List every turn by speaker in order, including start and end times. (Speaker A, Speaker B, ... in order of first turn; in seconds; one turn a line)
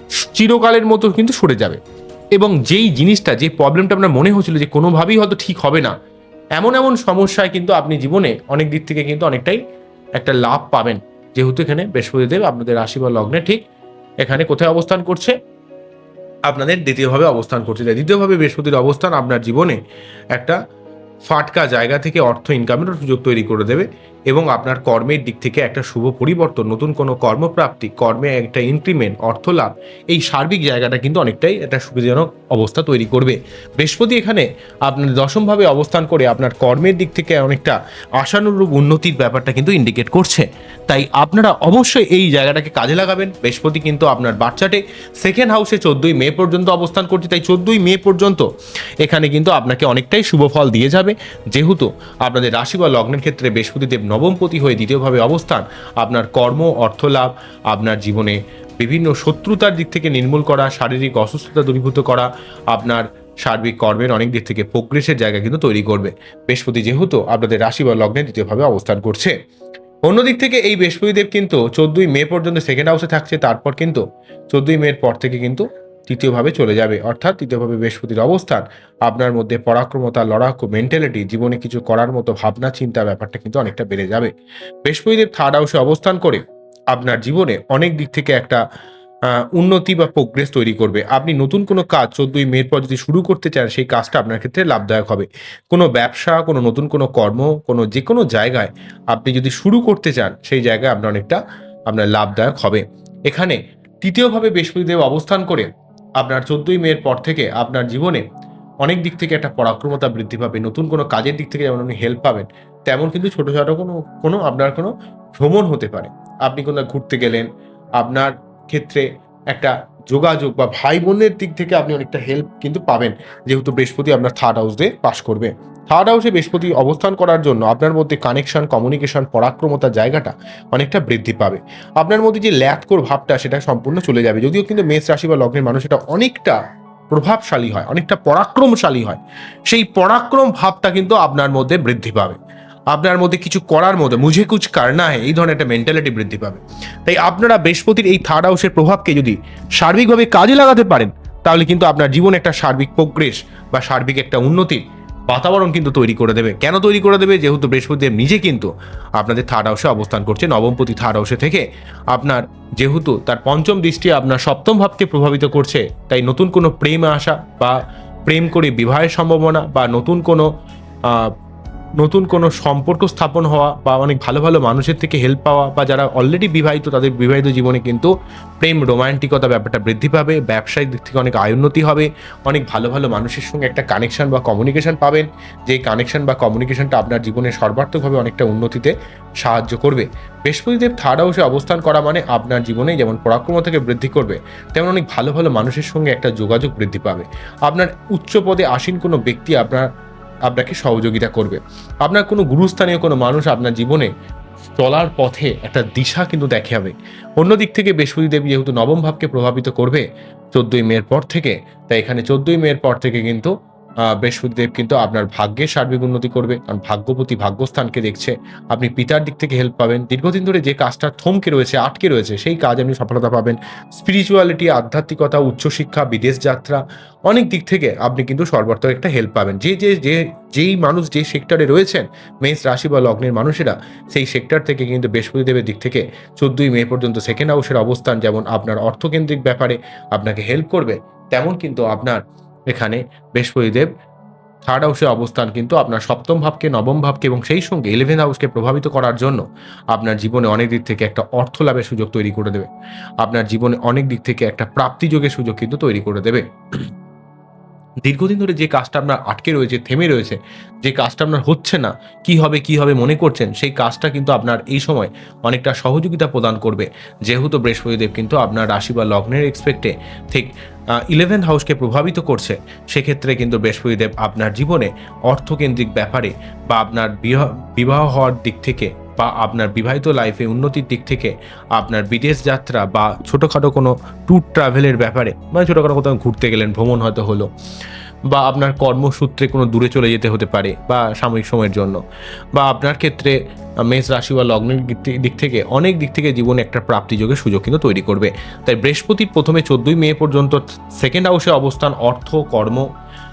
Speaker A: 0.2-1.8
Speaker A: 2.3-5.9
Speaker A: 6.6-9.6
Speaker A: 10.2-13.6
Speaker A: 14.2-15.3
Speaker A: 16.5-19.8
Speaker A: 20.3-20.6
Speaker A: 21.2-48.5
Speaker A: 49.0-69.3
Speaker A: 70.0-84.3
Speaker A: 84.8-88.6
Speaker A: 89.3-108.2
Speaker A: 108.8-117.5
Speaker A: 118.0-136.6
Speaker A: 137.1-142.4
Speaker A: 142.9-170.5
Speaker A: 171.1-171.3
Speaker A: 172.0-199.9
Speaker A: 200.5-204.1
Speaker A: 204.8-213.5
Speaker A: 214.1-243.9
Speaker A: 244.6-252.7
Speaker A: 253.2-256.9
Speaker A: 258.0-287.5
Speaker A: 288.3-292.0
Speaker A: 292.5-302.9